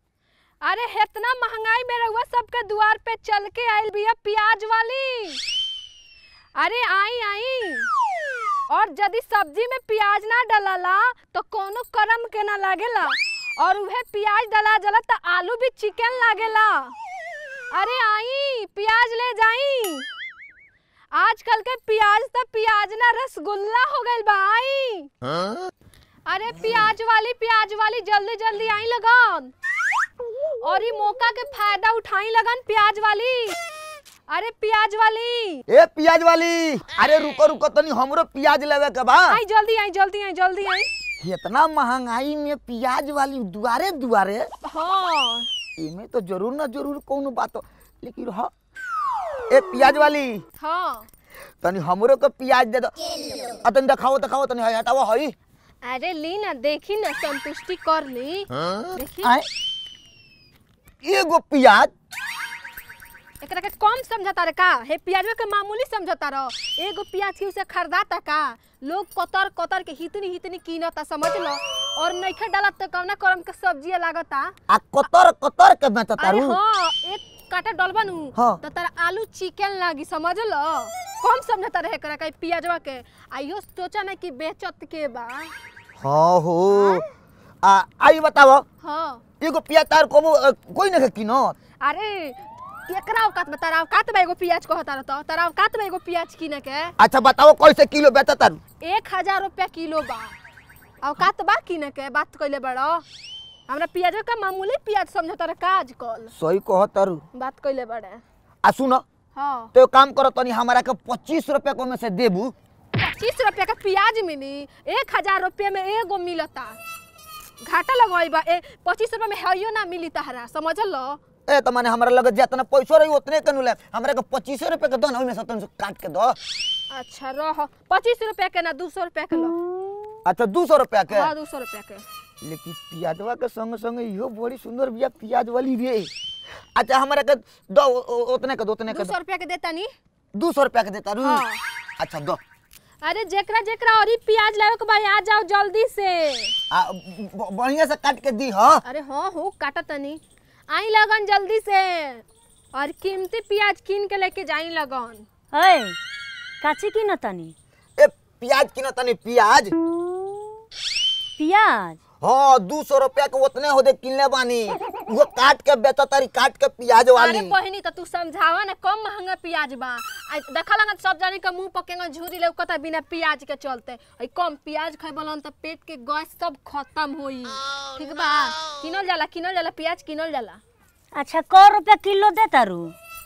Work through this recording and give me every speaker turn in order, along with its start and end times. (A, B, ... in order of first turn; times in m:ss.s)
0:00.6-0:05.4 A
0:06.6-0:07.9 A
0:08.7-0:17.0 A
0:17.7-0:20.1 A
0:21.1-0:25.1 A
0:26.3-0:29.5 A
0:30.6-0:33.6 A
0:34.3-0:35.6 A
0:35.7-0:39.4 B
0:39.3-0:40.9 A
0:41.2-0:44.5 B
0:44.6-0:45.5 A
0:45.8-0:48.5 B
0:49.5-0:50.4 B
0:50.6-0:51.1 A
0:51.6-0:55.3 B
0:55.8-0:59.3 A
0:58.5-0:59.4 B
1:01.0-1:01.9 B
1:03.4-1:14.5 A
1:14.7-1:16.6 B
1:16.2-1:25.5 A
1:26.0-1:27.0 B
1:26.7-1:27.0 A
1:27.6-1:28.6 B
1:28.8-1:29.2 A
1:29.4-1:31.5 B
1:31.8-1:36.9 A
1:37.0-1:38.6 B
1:38.8-1:40.3 A
1:41.0-1:43.0 A
1:43.7-1:46.3 A
1:46.3-1:47.2 B
1:47.3-1:48.2 A
1:48.6-1:49.0 B
1:49.3-1:49.7 A
1:49.7-1:52.5 B
1:53.0-1:56.8 A
1:57.6-2:01.2 A
2:01.5-2:06.4 B
2:06.9-2:09.6 A
2:10.2-2:11.3 B
2:11.1-2:12.0 A
2:12.4-2:16.1 B
2:16.7-2:19.1 B
2:18.9-2:19.9 A
2:20.3-2:21.4 B
2:21.2-2:21.6 A
2:22.0-2:22.4 B
2:23.0-2:26.6 A
2:26.7-2:28.8 B
2:28.8-2:35.2 A
2:35.5-2:36.0 C
2:36.6-2:37.5 C
2:38.0-2:39.7 B
2:41.4-2:42.0 C
2:42.2-2:47.5 B
2:47.2-3:00.6 A
3:01.1-3:02.9 C